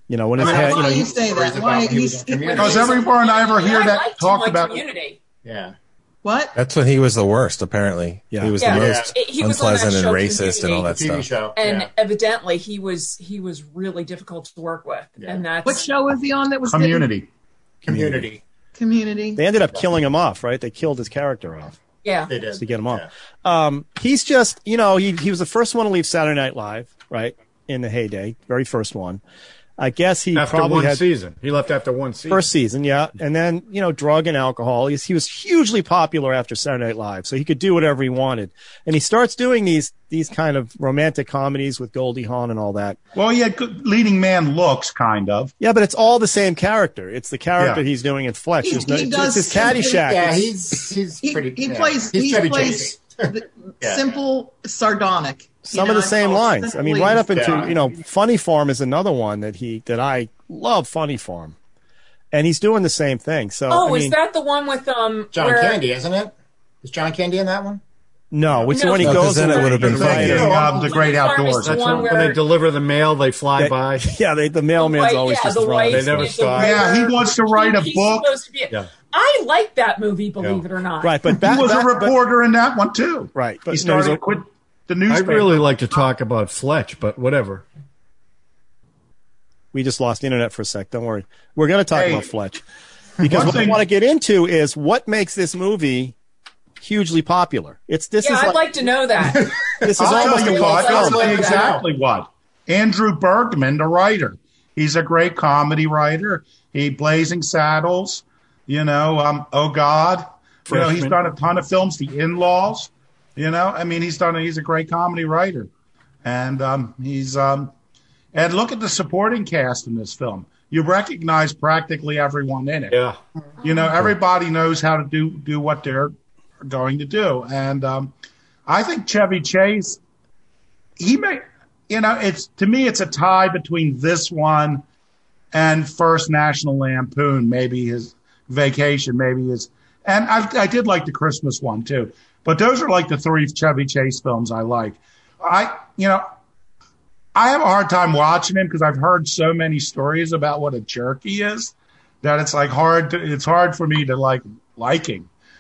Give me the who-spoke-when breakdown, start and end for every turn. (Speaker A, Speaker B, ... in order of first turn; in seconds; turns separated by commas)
Speaker A: 0.1-1.1, Speaker B: 0.4-2.9, Speaker C: 0.4-3.0, Speaker D: 2.5-5.2, Speaker E: 2.5-4.8, Speaker C: 5.4-5.8, Speaker B: 6.2-6.6, Speaker F: 6.5-11.3, Speaker D: 8.6-10.9, Speaker C: 8.7-9.1, Speaker C: 10.9-11.9, Speaker D: 11.6-15.9, Speaker C: 15.2-15.4, Speaker B: 15.6-17.1, Speaker E: 16.6-17.3, Speaker C: 17.9-18.4, Speaker E: 17.9-18.2, Speaker B: 18.8-19.4, Speaker A: 19.4-21.8, Speaker D: 22.0-22.3, Speaker C: 22.3-23.1, Speaker A: 22.6-29.2, Speaker A: 29.8-31.0, Speaker G: 30.3-32.5, Speaker A: 32.3-43.0, Speaker E: 43.2-45.5, Speaker A: 45.6-50.4, Speaker E: 47.6-47.8, Speaker B: 48.6-50.2, Speaker C: 49.8-53.3, Speaker B: 51.2-57.7, Speaker C: 53.8-54.2, Speaker A: 55.6-61.6, Speaker C: 57.3-57.8, Speaker A: 62.3-64.2, Speaker D: 63.7-65.8, Speaker C: 65.3-67.8, Speaker A: 68.3-70.8, Speaker D: 68.7-70.0, Speaker F: 69.0-70.6, Speaker E: 69.8-72.2, Speaker D: 70.5-72.4, Speaker G: 71.6-74.1, Speaker A: 73.6-76.4, Speaker D: 74.8-81.2, Speaker G: 75.9-76.9, Speaker E: 76.6-78.3, Speaker G: 80.4-80.7, Speaker A: 81.0-82.2, Speaker E: 81.3-85.6, Speaker A: 83.3-84.2, Speaker G: 85.1-87.7, Speaker A: 89.7-92.6, Speaker E: 91.9-92.3, Speaker A: 93.2-96.2, Speaker E: 93.2-93.8, Speaker A: 96.8-98.6, Speaker D: 98.2-99.5, Speaker C: 99.2-101.8, Speaker A: 99.8-101.5, Speaker E: 100.0-115.7, Speaker D: 100.0-101.7, Speaker G: 110.7-111.2, Speaker E: 116.2-117.7, Speaker E: 118.3-123.0, Speaker G: 122.9-123.2, Speaker E: 123.6-128.1, Speaker E: 128.7-130.0, Speaker E: 131.0-134.8, Speaker E: 135.5-146.3, Speaker E: 147.3-155.3